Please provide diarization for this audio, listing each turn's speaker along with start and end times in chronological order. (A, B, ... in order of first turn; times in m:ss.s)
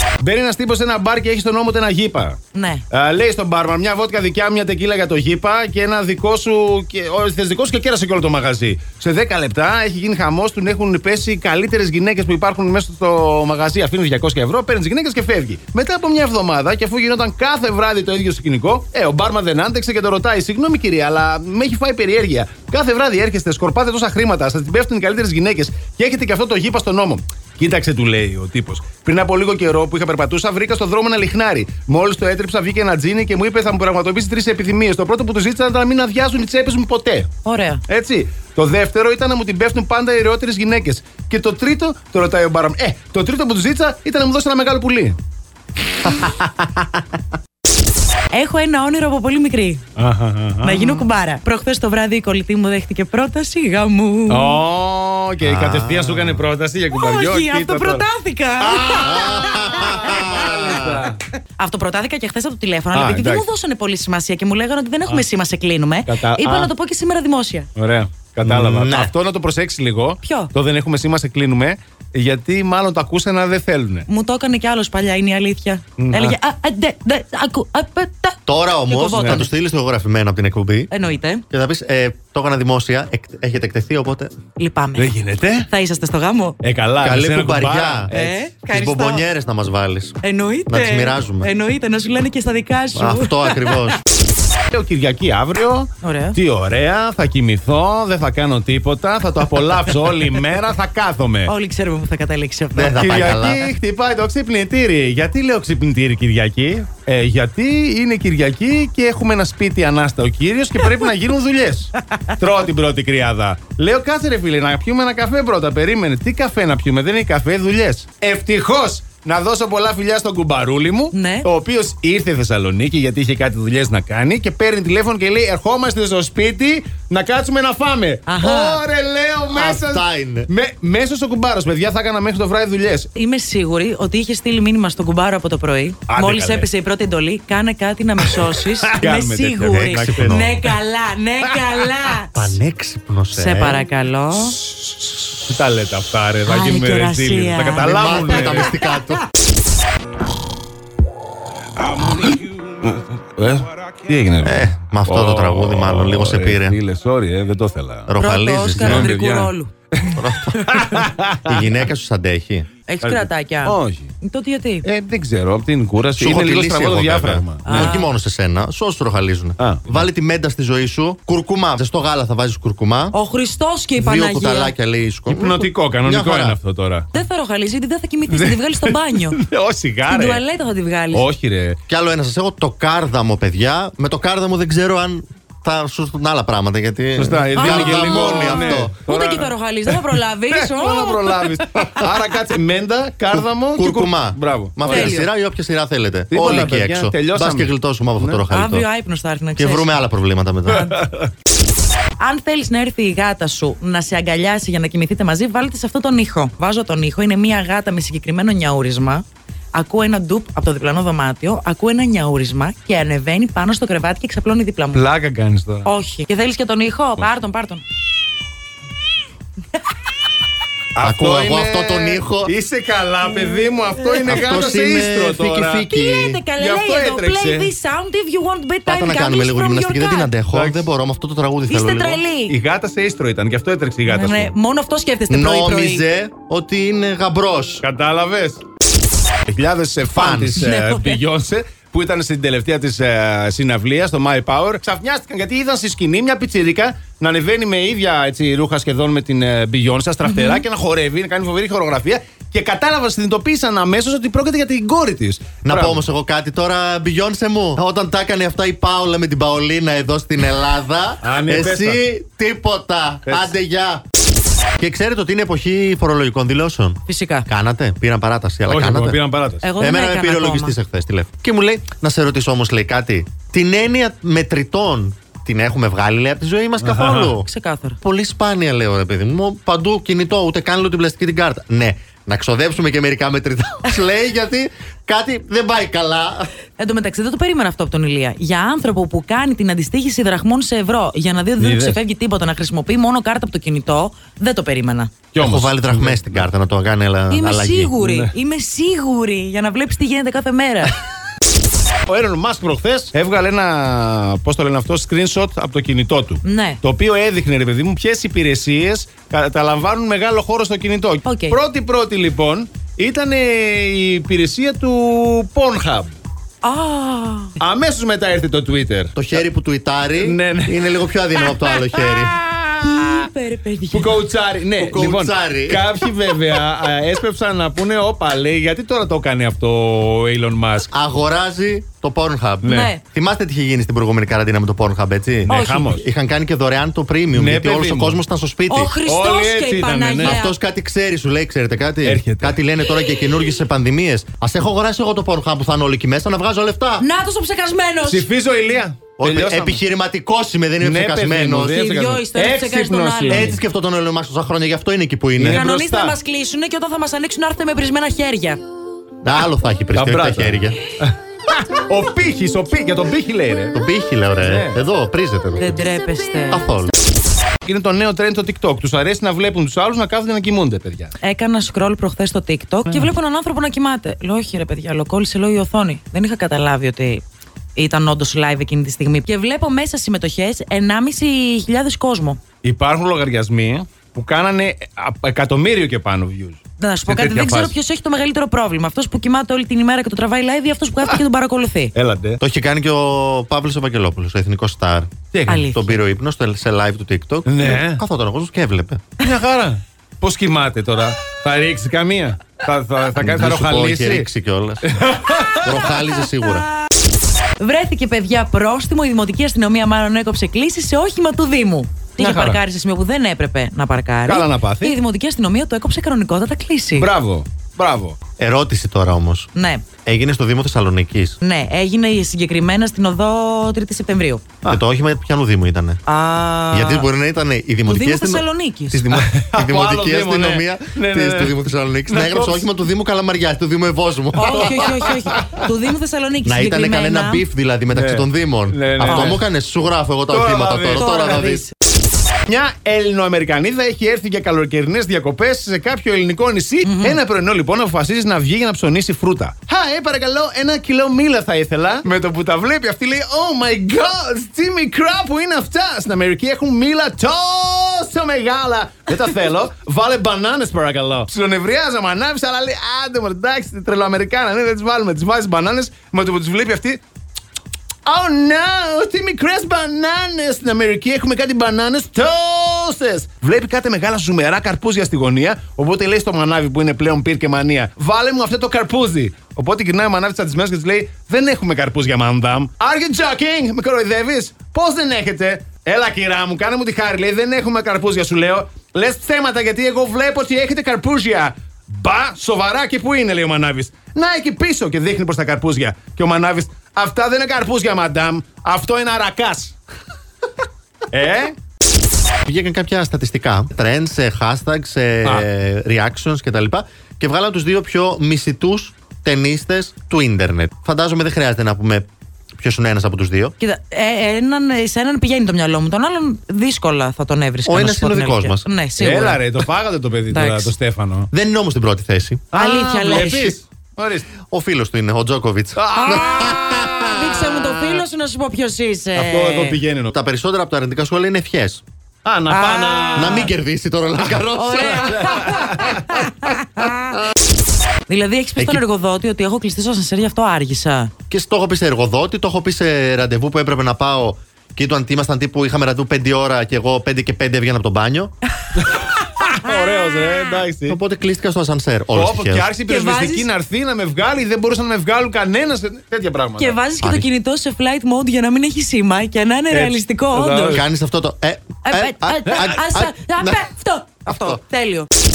0:00.2-0:02.4 A
0:02.5-0:02.8 B
0:02.9-0:37.3 A
0:37.4-0:37.8 B
0:37.9-0:45.2 A
0:48.3-0:49.8 B
0:50.0-0:51.1 A
0:50.6-0:54.6 B
0:54.3-0:58.1 A
0:55.4-0:56.4 C
0:57.0-1:00.8 B
0:58.6-1:01.2 A
0:58.8-1:01.1 C
1:01.6-1:07.7 B
1:02.9-1:03.5 A
1:06.1-1:06.7 A
1:07.8-1:14.1 A
1:08.4-1:09.1 C
1:10.2-1:10.5 B
1:14.1-1:19.5 B
1:16.0-1:16.4 A
1:18.5-1:20.9 C
1:19.1-1:19.4 A
1:20.9-1:21.4 B
1:21.5-1:24.3 C
1:24.6-1:26.6 B
1:25.0-1:25.7 A
1:26.6-1:28.5 A
1:27.0-1:28.1 C
1:28.1-1:29.2 B
1:28.7-1:31.5 C
1:30.2-1:34.0 B
1:33.0-1:34.0 C
1:34.7-1:41.5 A
1:36.0-1:36.4 B
1:41.5-1:43.5 B
1:42.8-1:43.7 C
1:43.0-2:13.1 A
2:01.1-2:01.5 B
2:08.3-2:08.8 B
2:09.5-2:10.5 C
2:13.2-2:22.6 B
2:16.1-2:16.7 A
2:18.2-2:20.8 A
2:19.7-2:20.5 C
2:21.4-2:21.9 A
2:22.3-2:23.8 C
2:23.3-2:24.6 B
2:24.6-2:28.7 A
2:26.4-2:28.5 B
2:28.0-2:29.2 C
2:31.9-2:38.1 A
2:34.4-2:36.8 C
2:38.1-2:39.1 C
2:38.2-2:39.7 B
2:38.7-2:41.8 A
2:40.1-2:40.6 C
2:40.5-2:41.0 B
2:41.5-2:42.7 C
2:42.9-2:44.9 B
2:43.0-2:44.1 A
2:44.8-2:48.0 A
2:46.2-2:53.2 C
2:47.6-2:48.1 B
2:49.6-2:50.1 A
2:53.1-2:54.7 B
2:54.0-2:56.6 C
2:55.3-2:57.1 A
2:57.1-2:59.4 B
2:58.3-3:00.4 A
3:00.1-3:01.3 B
3:01.1-3:01.8 A
3:01.9-3:09.0 C
3:07.2-3:15.2 A
3:07.6-3:12.1 B
3:13.4-3:18.9 C
3:14.8-3:15.3 B
3:16.3-3:18.4 A
3:18.5-3:20.0 B
3:19.6-3:20.9 C
3:20.7-3:21.3 A
3:22.2-3:35.0 B
3:34.9-3:35.9 A
3:35.8-3:37.8 B
3:41.0-3:45.9 A
3:41.0-3:42.5 C
3:44.3-3:46.4 C
3:45.9-3:50.3 B
3:46.6-3:47.7 A
3:48.9-3:52.2 C
3:50.5-3:50.9 A
3:51.7-3:52.6 B
3:52.5-3:54.5 A
3:54.0-3:56.0 B
3:55.3-3:57.8 C
3:57.8-3:58.6 A
3:59.5-4:16.1 A
4:00.1-4:00.6 C
4:00.5-4:01.2 B
4:10.2-4:10.6 B
4:15.6-4:24.0 C
4:21.2-4:22.0 A
4:23.3-4:23.5 A
4:24.8-4:29.2 C
4:27.1-4:27.5 B
4:28.7-4:29.7 A
4:29.6-4:30.8 B
4:29.8-4:37.5 C
4:36.8-4:37.4 A
4:37.4-4:38.0 B
4:38.0-4:46.5 C
4:46.8-4:55.1 B
4:51.6-4:52.0 A
4:55.3-4:56.5 A
4:55.4-4:57.9 C
4:57.3-5:01.0 B
4:58.0-4:58.3 A
5:02.1-5:16.2 A
5:06.4-5:06.8 B
5:11.2-5:11.6 B
5:16.6-5:17.6 B
5:17.6-5:19.4 A
5:19.2-5:22.4 C
5:20.2-5:23.3 A
5:22.8-5:24.2 B
5:23.9-5:30.9 A
5:24.8-5:25.9 C
5:30.9-5:39.0 C
5:32.6-5:32.9 A
5:32.6-5:33.0 B
5:35.5-5:36.1 A
5:35.5-5:36.0 B
5:37.3-5:38.2 A
5:38.7-5:40.6 B
5:39.0-5:40.4 A
5:40.2-5:47.0 C
5:42.0-5:42.6 A
5:47.0-5:48.3 B
5:48.0-5:49.8 A
5:49.2-5:51.8 C
5:50.8-5:53.6 A
5:51.7-5:53.5 B
5:53.3-5:55.6 C
5:55.4-5:56.2 A
5:55.4-5:58.6 B
5:59.2-6:00.9 C
5:59.9-6:03.8 A
6:03.7-6:05.8 C
6:04.4-6:04.8 A
6:05.6-6:06.7 B
6:06.5-6:06.9 C
6:07.6-6:11.1 A
6:11.2-6:17.2 B
6:17.8-6:22.4 B
6:22.6-6:27.8 A
6:26.8-6:31.9 B
6:32.0-6:32.4 A
6:32.4-6:35.1 C
6:35.3-6:35.7 A
6:35.5-6:36.0 B
6:35.7-6:39.0 C
6:37.5-6:38.0 A
6:39.2-6:44.3 A
6:43.2-6:44.9 C
6:44.9-6:45.9 A
6:45.6-6:46.7 C
6:47.6-6:57.1 B
6:52.2-6:52.6 A
6:54.3-6:55.0 A
6:57.0-6:58.2 A
6:58.4-6:59.5 C
6:59.6-6:59.8 B
7:00.0-7:01.4 C
7:01.4-7:04.4 B
7:04.7-7:06.0 C
7:06.1-7:07.1 B
7:06.7-7:14.9 C
7:07.8-7:09.1 B
7:09.1-7:12.7 A
7:14.4-7:17.4 B
7:14.4-7:15.6 A
7:16.4-7:21.6 C
7:17.9-7:19.4 A
7:19.0-7:19.4 B
7:20.3-7:21.4 A
7:21.0-7:21.7 B
7:22.5-7:47.0 A
7:26.8-7:27.2 B
7:48.1-8:19.8 A
8:21.1-8:21.6 A
8:22.4-8:33.6 C
8:33.6-8:39.4 B
8:37.7-8:38.7 C
8:39.0-8:41.3 A
8:40.3-8:40.7 B
8:41.3-8:42.5 C
8:42.5-8:44.3 A
8:42.5-8:43.6 B
8:43.1-8:43.4 C
8:44.5-8:47.5 C
8:45.8-8:46.9 A
8:46.0-8:49.8 B
8:49.2-8:50.1 A
8:50.1-8:51.8 C
8:52.2-8:53.5 A
8:52.5-8:53.5 B
8:53.2-8:55.7 C
8:54.6-8:57.2 B
8:54.8-8:56.1 A
8:58.1-9:01.1 B
8:58.6-8:58.8 C
9:01.3-9:08.3 C
9:08.8-9:11.0 A
9:10.9-9:12.7 C
9:12.1-9:16.8 A
9:12.9-9:13.5 B
9:16.6-9:20.8 B
9:17.0-9:17.3 C
9:19.7-9:20.9 A
9:20.7-9:23.6 C
9:21.8-9:25.1 B
9:24.3-9:24.6 C